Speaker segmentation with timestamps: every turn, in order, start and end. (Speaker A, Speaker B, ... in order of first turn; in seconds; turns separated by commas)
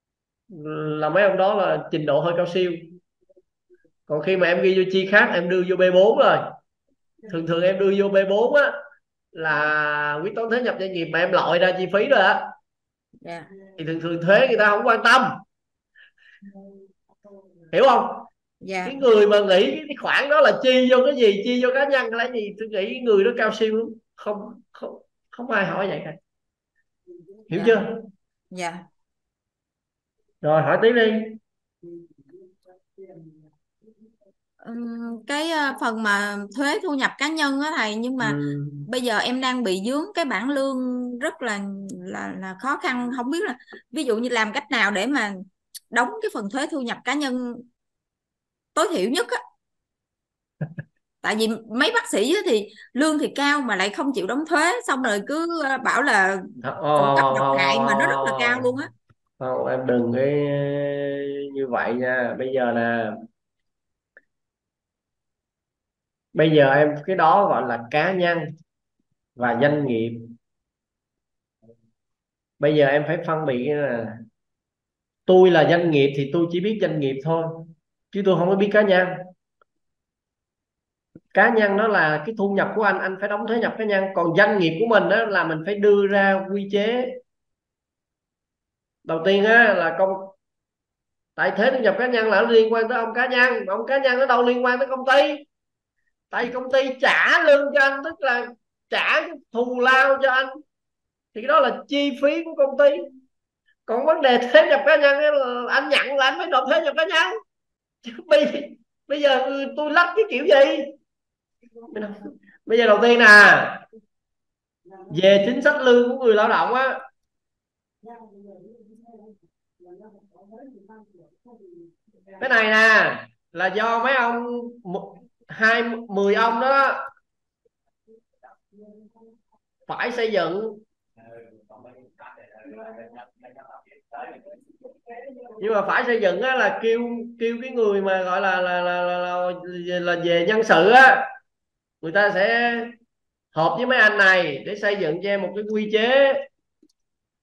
Speaker A: 0.5-2.9, Speaker A: 4.1-6.4, Speaker A: 7.3-8.7, Speaker A: 9.3-12.5, Speaker B: 13.2-13.5, Speaker A: 13.8-15.4, Speaker A: 17.7-18.3, Speaker B: 18.6-18.9, Speaker A: 18.8-26.2, Speaker A: 27.5-28.0, Speaker B: 28.5-28.8, Speaker A: 30.4-31.4, Speaker B: 34.6-47.6, Speaker A: 38.2-38.9, Speaker B: 48.7-49.4, Speaker B: 51.2-58.9, Speaker A: 56.6-58.7, Speaker A: 59.4-63.1, Speaker A: 66.3-68.5, Speaker A: 69.4-70.3, Speaker A: 72.6-74.2, Speaker A: 75.3-79.2, Speaker A: 81.3-87.2, Speaker A: 89.0-90.3, Speaker A: 91.4-95.4, Speaker A: 96.3-100.5, Speaker A: 101.3-103.1, Speaker A: 103.9-107.3, Speaker A: 108.0-110.9, Speaker A: 111.9-113.8, Speaker A: 115.1-117.0, Speaker A: 122.4-127.0, Speaker A: 129.9-130.8, Speaker A: 135.6-141.2, Speaker A: 142.0-142.9, Speaker A: 143.5-146.4